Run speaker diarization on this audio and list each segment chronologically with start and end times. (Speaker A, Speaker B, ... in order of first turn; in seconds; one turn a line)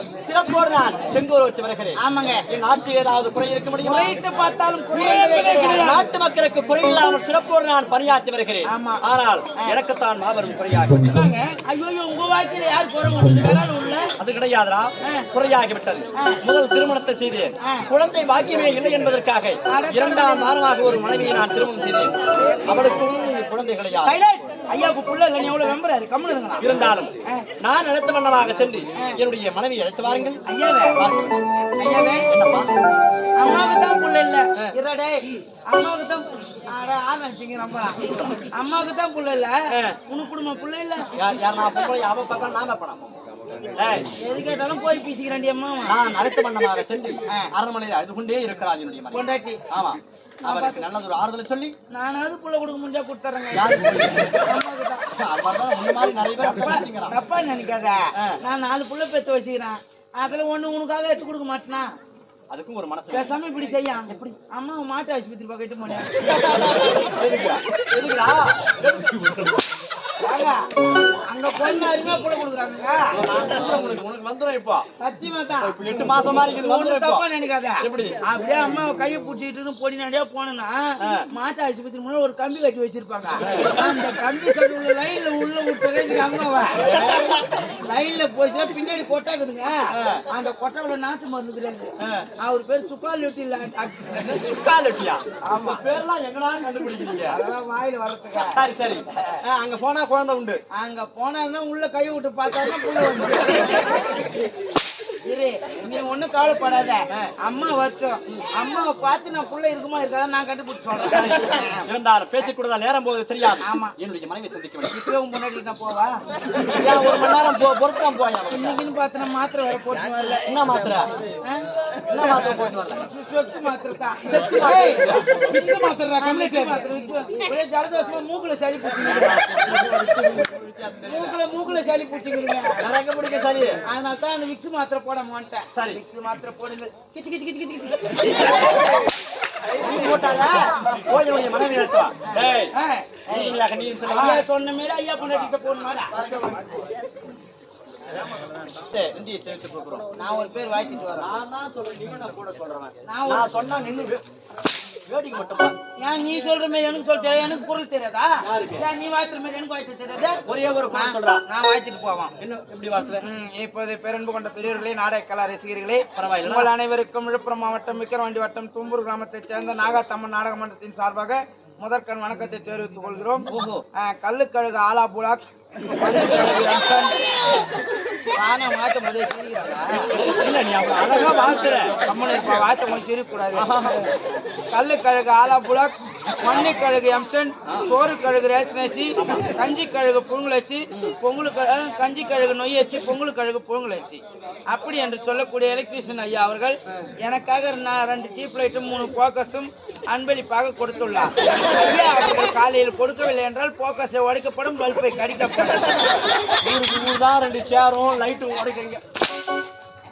Speaker A: 0.2-4.2
Speaker B: 2.0-2.4
Speaker B: 3.8-5.9
Speaker C: 4.9-6.1
Speaker A: 5.6-11.2
Speaker B: 8.7-9.0
Speaker B: 11.1-14.1
Speaker A: 14.2-24.1
Speaker B: 16.1-16.4
Speaker B: 17.6-17.9
Speaker B: 19.7-20.6
Speaker B: 24.1-26.7
Speaker A: 26.6-30.4
Speaker B: 30.5-31.0
Speaker A: 30.9-31.4
Speaker B: 31.7-32.3
Speaker A: 32.3-32.7
Speaker B: 33.4-41.1
Speaker A: 39.7-40.0
Speaker A: 41.2-43.2
Speaker A: 43.8-44.1
Speaker B: 44.2-46.0
Speaker A: 45.9-51.7
Speaker B: 49.1-49.6
Speaker B: 50.4-50.9
Speaker B: 51.9-53.7
Speaker A: 53.5-54.5
Speaker B: 54.4-55.0
Speaker A: 55.2-57.2
Speaker B: 56.4-61.9
Speaker A: 62.5-63.4
Speaker B: 63.1-67.0
Speaker A: 64.1-64.4
Speaker A: 66.3-69.6
Speaker B: 70.2-73.2
Speaker A: 73.1-74.9
Speaker B: 75.0-80.8
Speaker A: 75.6-77.2
Speaker A: 77.8-78.2
Speaker A: 81.0-81.3
Speaker B: 81.3-86.8
Speaker A: 83.4-83.9
Speaker A: 86.7-87.4
Speaker B: 87.6-94.4
Speaker A: 89.9-90.2
Speaker A: 92.0-92.3
Speaker A: 94.4-97.4
Speaker B: 95.4-95.8
Speaker B: 97.3-98.6
Speaker A: 98.5-100.6
Speaker B: 100.8-104.1
Speaker B: 105.2-111.8
Speaker A: 111.0-115.0
Speaker B: 113.6-113.9
Speaker B: 114.9-116.2
Speaker A: 116.7-118.8
Speaker B: 118.5-120.5
Speaker A: 120.4-121.1
Speaker B: 121.4-121.7
Speaker A: 122.1-123.0
Speaker B: 122.8-124.5
Speaker A: 124.2-125.3
Speaker C: 124.6-126.8
Speaker B: 126.2-129.5
Speaker A: 129.0-131.4
Speaker B: 131.0-132.9
Speaker A: 132.8-133.8
Speaker B: 133.9-138.8
Speaker A: 135.8-136.0
Speaker A: 139.7-142.7
Speaker B: 139.8-140.8
Speaker B: 142.2-146.2
Speaker A: 143.3-144.5
Speaker A: 146.1-147.0
Speaker A: 148.7-150.1
Speaker B: 150.2-151.3
Speaker A: 151.1-154.2
Speaker B: 153.1-153.5
Speaker A: 155.1-155.8
Speaker B: 156.0-162.3
Speaker A: 158.4-158.9
Speaker A: 160.4-161.4
Speaker A: 162.4-163.2
Speaker B: 163.2-177.2
Speaker A: 166.2-166.7
Speaker A: 173.5-173.8
Speaker B: 178.4-180.1
Speaker A: 180.2-181.9
Speaker B: 182.1-183.9
Speaker A: 183.5-184.0
Speaker B: 184.7-206.2
Speaker A: 187.7-187.9
Speaker A: 189.2-189.5
Speaker A: 206.6-209.0